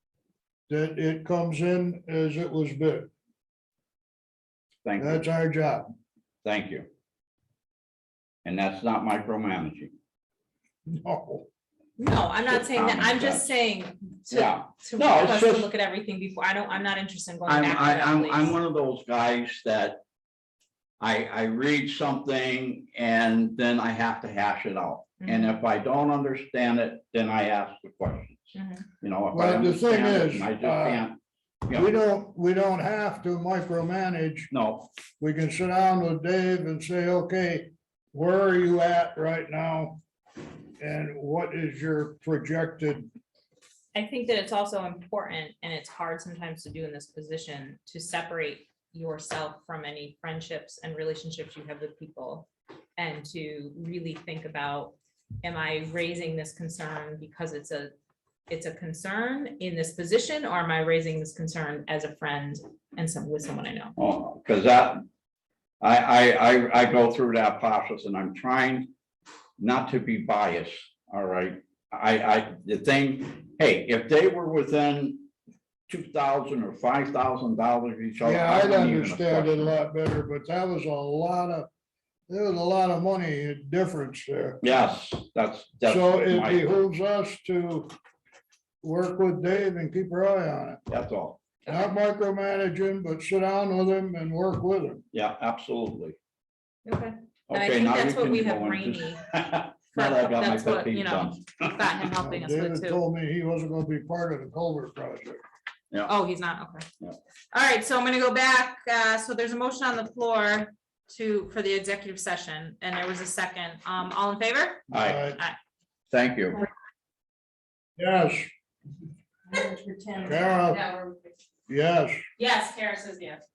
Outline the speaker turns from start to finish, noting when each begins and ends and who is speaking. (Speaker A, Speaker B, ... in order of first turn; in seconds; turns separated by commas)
Speaker A: 0.7-3.1, Speaker B: 4.8-5.2, Speaker A: 5.0-5.9, Speaker B: 6.4-6.9, Speaker B: 8.4-9.9, Speaker A: 10.9-11.5, Speaker C: 12.0-18.5, Speaker B: 12.4-13.5, Speaker B: 14.3-15.7, Speaker B: 17.5-20.0, Speaker B: 21.0-31.9, Speaker C: 25.2-25.5, Speaker C: 28.6-28.9, Speaker A: 29.3-31.0, Speaker A: 31.7-34.5, Speaker B: 34.5-34.9, Speaker A: 35.2-40.0, Speaker A: 40.8-43.1, Speaker C: 43.9-57.9, Speaker C: 58.5-64.0, Speaker B: 64.0-65.0, Speaker B: 65.8-68.9, Speaker B: 69.6-75.3, Speaker B: 75.9-79.7, Speaker A: 78.2-81.7, Speaker A: 82.3-84.6, Speaker B: 84.6-86.7, Speaker A: 85.9-87.9, Speaker A: 88.8-90.8, Speaker B: 90.9-91.4, Speaker A: 91.7-95.0, Speaker B: 95.1-96.2, Speaker C: 96.8-99.2, Speaker B: 97.5-101.7, Speaker C: 99.9-103.0, Speaker A: 102.2-105.4, Speaker C: 106.1-106.9, Speaker C: 107.5-115.6, Speaker B: 114.9-115.2, Speaker A: 114.9-115.4, Speaker B: 116.1-116.6, Speaker A: 118.0-118.5, Speaker C: 119.5-121.2, Speaker A: 120.2-120.8, Speaker A: 121.7-122.2, Speaker C: 122.4-123.4